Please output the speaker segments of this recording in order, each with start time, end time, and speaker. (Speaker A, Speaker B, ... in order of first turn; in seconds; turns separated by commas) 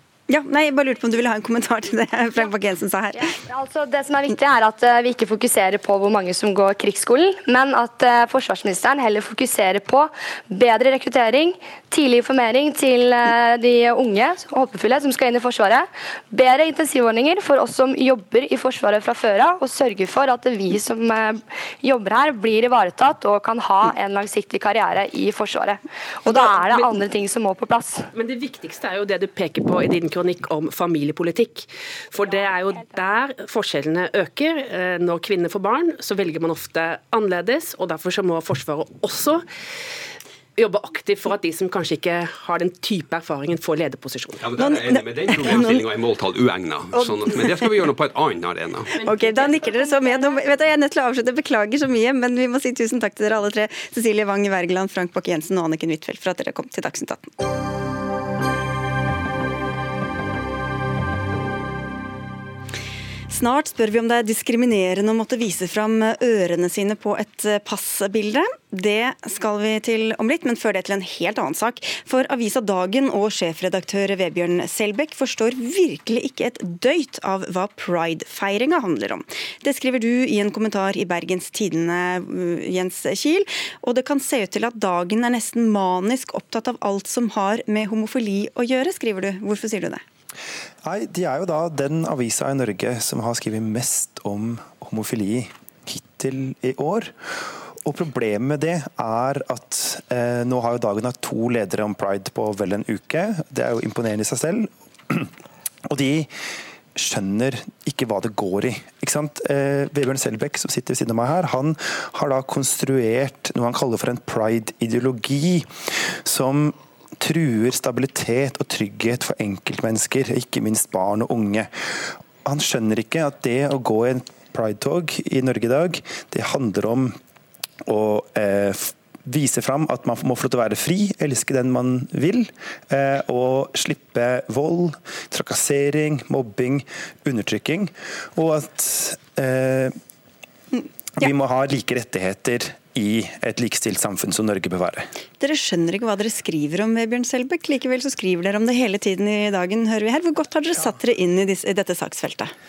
Speaker A: 0.3-3.3, Speaker B: 3.2-28.1, Speaker C: 26.3-26.9, Speaker C: 28.1-39.4, Speaker C: 40.6-44.7, Speaker D: 44.4-48.9, Speaker A: 44.6-45.8, Speaker A: 46.9-47.4, Speaker C: 48.9-50.4, Speaker A: 48.9-57.3, Speaker A: 63.3-90.0, Speaker E: 90.8-97.2, Speaker E: 97.8-105.3, Speaker E: 105.9-106.3, Speaker E: 106.9-121.7, Speaker E: 122.4-127.2, Speaker E: 127.8-140.0, Speaker E: 141.2-145.1, Speaker A: 145.4-152.5